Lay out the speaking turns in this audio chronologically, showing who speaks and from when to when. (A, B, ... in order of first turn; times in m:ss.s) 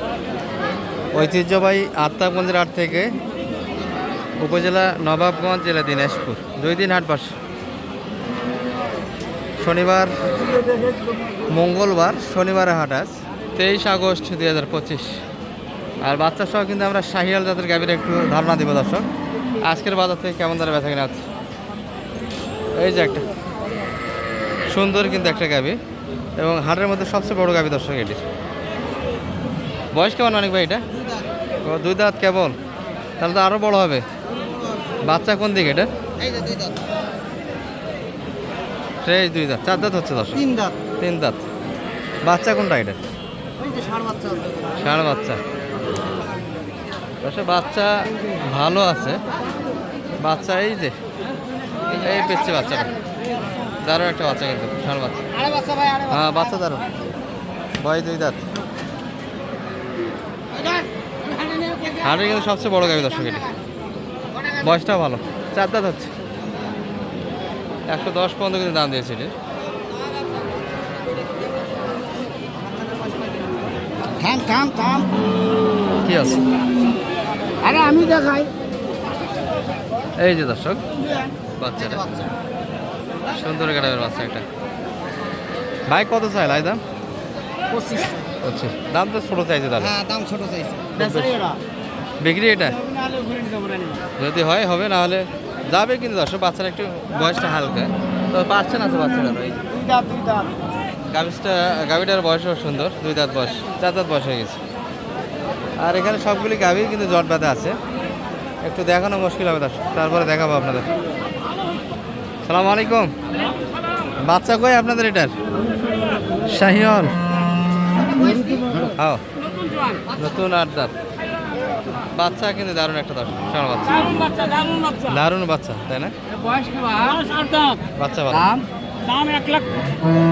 0:01.1-0:03.1 A
0:04.4-0:07.3 A
0:09.6-0:10.1 A
0:11.5-0:15.2 A
0:16.0-0:19.0 A
0:19.6-0:21.3 A
0:22.8-0:23.2 A
0:24.7-0:25.8 A
0:26.4-0:28.2 A
0:29.9-0:30.8 A
0:31.0-0:31.3 B
0:31.6-0:32.6 A
0:33.2-0:34.0 A
0:34.4-0:35.0 B
0:35.0-0:35.9 A
0:36.2-0:36.9 B
0:39.0-0:40.4 A
0:40.4-0:40.8 B
0:41.0-0:41.4 A
0:42.2-0:43.0 A
0:43.6-0:44.9 B
0:44.8-0:45.4 A
0:47.2-0:49.2 A
0:50.2-0:51.0 A
0:52.0-0:52.9 A
0:52.0-0:52.6 B
0:53.8-0:55.3 A
0:55.4-0:56.4 B
0:56.1-0:56.8 A
0:57.8-0:58.4 A
1:00.6-1:02.4 B
1:02.0-1:03.5 A
1:03.0-1:03.4 B
1:04.3-1:04.7 B
1:04.6-1:06.1 A
1:07.9-1:09.3 A
1:12.6-1:13.5 B
1:14.2-1:15.1 B
1:16.0-1:16.4 A
1:17.6-1:18.5 B
1:20.2-1:20.8 A
1:21.6-1:22.3 A
1:21.8-1:22.3 B
1:23.3-1:24.4 A
1:25.9-1:26.8 A
1:27.7-1:28.3 B
1:28.4-1:29.9 A
1:29.8-1:31.6 B
1:31.0-1:31.4 A
1:32.2-1:32.8 A
1:32.8-1:34.1 B
1:34.2-1:39.6 A
1:39.7-1:40.5 B
1:41.1-1:44.6 A
1:45.8-1:47.8 A
1:48.6-1:50.9 A
1:52.4-1:53.1 A
1:54.3-1:55.4 A
1:56.4-1:57.1 A
1:58.0-1:58.9 B
1:59.0-1:59.2 A
1:59.4-2:00.0 C
2:00.1-2:00.9 A
2:02.1-2:04.3 A
2:04.0-2:05.1 C
2:05.0-2:06.1 A
2:06.4-2:07.2 B
2:07.2-2:07.8 C
2:08.0-2:08.5 A
2:08.4-2:08.6 B
2:09.0-2:09.7 C